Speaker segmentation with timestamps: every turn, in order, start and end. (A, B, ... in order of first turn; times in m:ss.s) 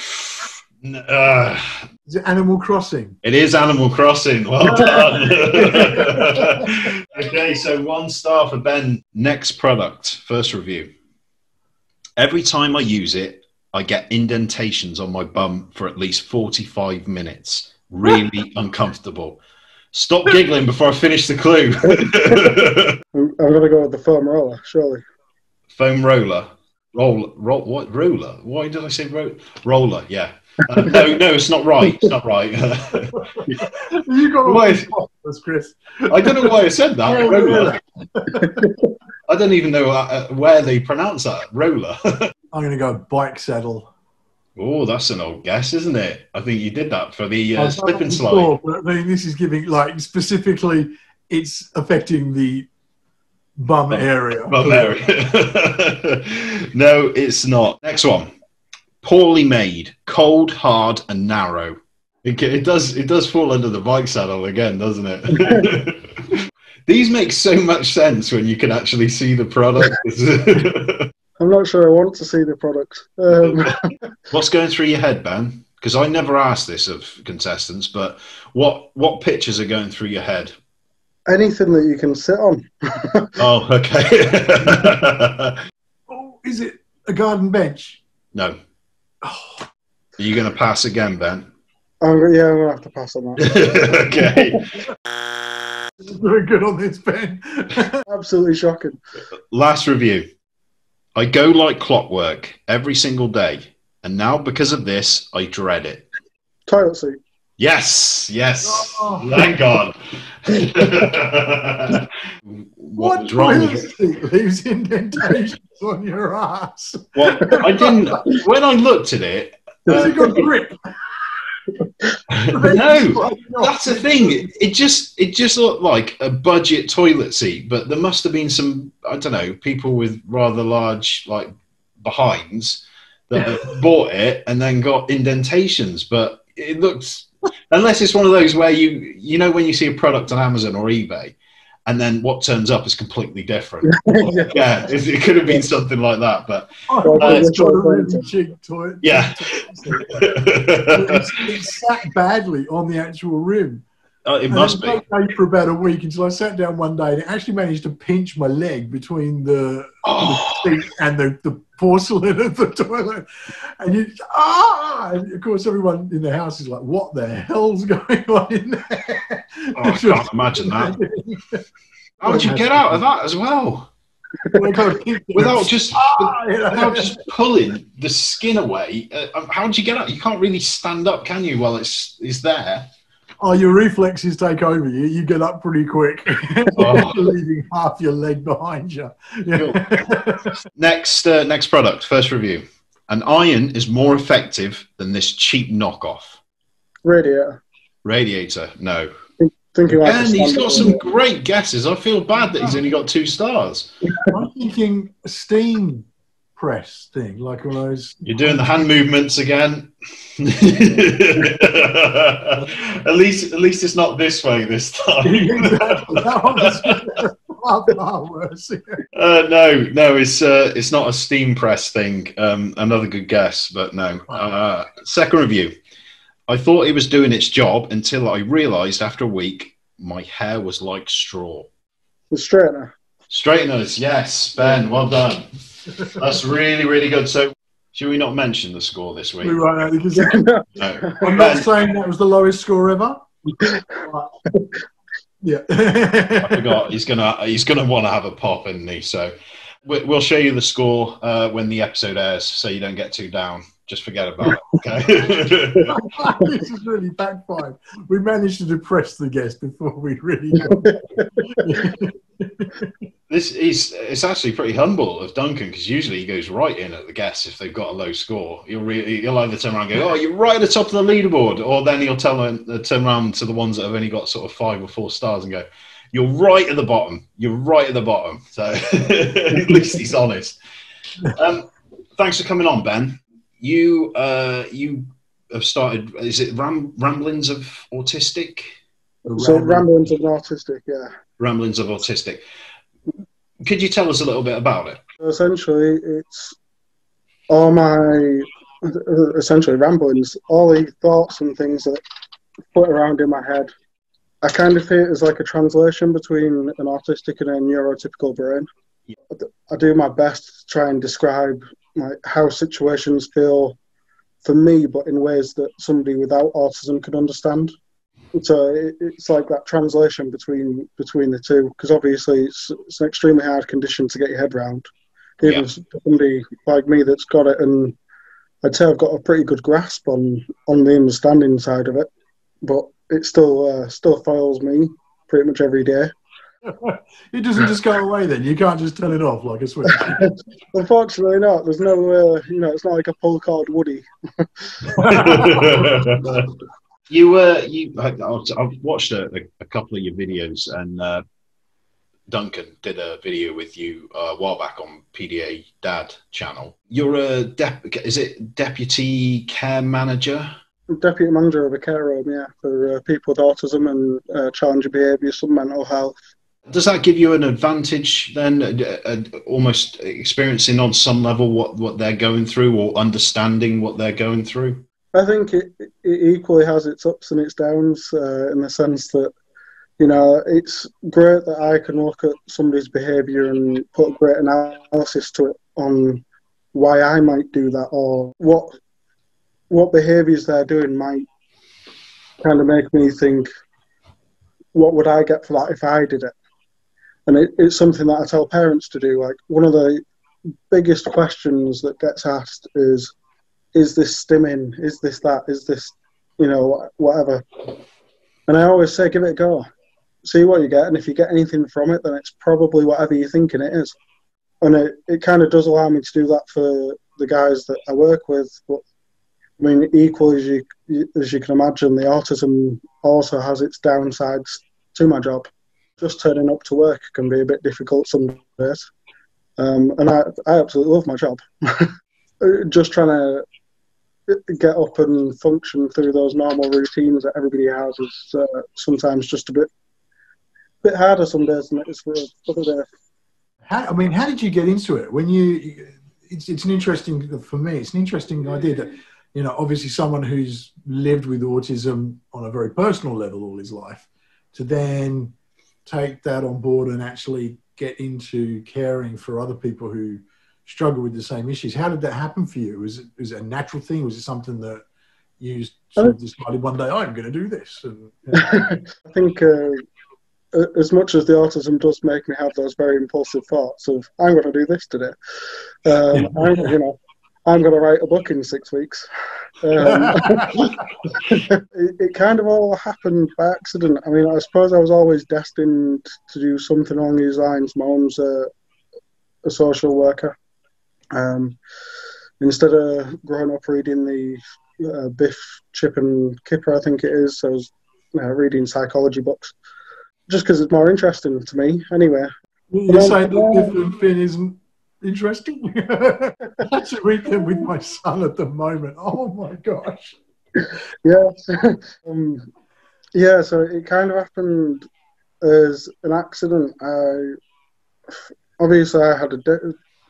0:00.4-0:01.8 A
0:02.0-0:03.2 B
0:03.2-0:10.9 A
0:04.7-0:06.7 B
0:05.7-0:06.0 C
0:12.2-0:19.4 A
0:19.9-0:23.0 A
0:21.9-0:22.6 C
0:23.1-0:25.0 C
0:25.7-0:33.5 A
0:33.1-0:38.6 B
0:34.4-0:34.9 A
0:36.1-0:37.8 A
0:38.4-0:38.7 C
0:39.3-0:42.3 A
0:42.5-0:43.9 B
0:44.6-0:48.5 A
0:47.6-0:52.7 B
0:53.6-0:55.0 B
0:53.9-0:58.3 A
0:59.0-1:11.1 A
1:05.3-1:05.7 C
1:11.4-1:13.8 C
1:13.5-1:13.8 A
1:14.3-1:20.5 A
1:21.3-1:23.4 C
1:23.4-1:25.6 A
1:26.1-1:28.0 B
1:29.2-1:29.7 B
1:30.2-1:31.5 A
1:32.0-1:34.5 C
1:33.4-1:34.7 A
1:36.0-1:38.0 B
1:38.1-1:39.0 C
1:39.5-1:40.3 A
1:41.2-1:46.0 A
1:46.7-1:47.2 C
1:47.6-1:53.9 A
1:48.6-1:49.5 B
1:53.0-1:58.1 B
1:57.2-2:00.4 A
1:59.9-2:00.5 C
1:59.9-2:00.7 B
2:02.3-2:21.3 A
2:02.5-2:04.5 B
2:21.8-2:27.5 A
2:23.8-2:24.9 C
2:26.9-2:33.8 B
2:27.0-2:28.2 C
2:29.0-2:31.5 A
2:34.2-2:35.0 A
2:34.5-2:51.6 B
2:40.0-2:40.7 A
2:49.8-2:51.0 A
2:52.2-2:53.9 A
2:52.2-2:53.0 B
2:54.5-2:57.2 B
2:55.3-3:02.8 A
3:03.4-3:10.5 B
3:06.7-3:07.3 A
3:09.5-3:09.9 A
3:10.8-3:16.4 A
3:17.0-3:17.6 C
3:18.0-3:19.1 A
3:19.4-3:21.0 C
3:20.0-3:23.9 A
3:24.3-3:28.8 B
3:28.2-3:37.0 A
3:35.2-3:39.0 B
3:39.1-3:45.7 A
3:46.5-3:51.7 A
3:52.3-3:52.9 C
3:53.3-3:55.5 A
3:55.9-3:56.2 B
3:56.0-3:59.6 A
3:59.4-4:00.4 B
4:00.2-4:01.2 C
4:00.8-4:01.8 A
4:01.2-4:03.2 B
4:03.9-4:04.3 B
4:05.4-4:06.9 B
4:06.4-4:09.3 A
4:09.8-4:16.0 A
4:15.8-4:16.6 C
4:15.9-4:21.0 B
4:20.6-4:21.7 C
4:21.5-4:22.9 B
4:23.3-4:40.6 A
4:41.2-4:48.7 A
4:49.2-4:49.9 B
4:49.3-4:51.1 C
4:51.4-4:52.4 A
4:53.6-4:55.0 A
4:55.2-4:56.6 C
4:57.5-5:02.0 C
5:02.7-5:03.7 C
5:04.4-5:08.7 C
5:09.3-5:13.8 C
5:14.4-5:17.8 C
5:18.3-5:24.9 C
5:25.4-5:28.0 C
5:25.4-5:25.6 A
5:28.6-5:32.1 C
5:32.6-5:36.1 C
5:36.6-5:40.3 B
5:40.1-5:45.4 C
5:44.9-5:46.0 B
5:45.1-5:46.5 A
5:47.1-5:51.2 A
5:52.3-6:00.5 A
6:00.9-6:06.2 C
6:06.7-6:14.8 A
6:15.1-6:19.3 C
6:20.0-6:26.2 C
6:26.7-6:28.7 C
6:29.7-6:31.2 C
6:32.4-6:33.5 C
6:34.7-6:36.3 C
6:37.2-6:40.0 C
6:40.7-6:43.1 C
6:43.7-6:47.6 C
6:48.5-6:49.6 C
6:50.2-6:54.0 C
6:54.6-6:58.8 C
6:59.6-7:05.5 C
7:06.0-7:08.9 C
7:09.6-7:13.4 C
7:14.3-7:19.7 C
7:20.8-7:22.9 C
7:23.6-7:35.3 B
7:35.9-7:44.8 B
7:45.4-7:48.5 B
7:48.3-7:49.8 C
7:50.5-7:55.1 C
7:55.8-7:59.1 C
7:56.1-7:56.7 B
7:59.6-8:08.5 C
7:59.8-8:00.8 B
8:09.4-8:10.3 C
8:11.1-8:11.6 C
8:12.4-8:19.5 C
8:20.3-8:22.3 C
8:22.7-8:30.2 B
8:22.9-8:23.7 C
8:31.0-8:32.5 C
8:33.1-8:34.9 C
8:35.4-8:37.4 C
8:38.6-8:39.8 C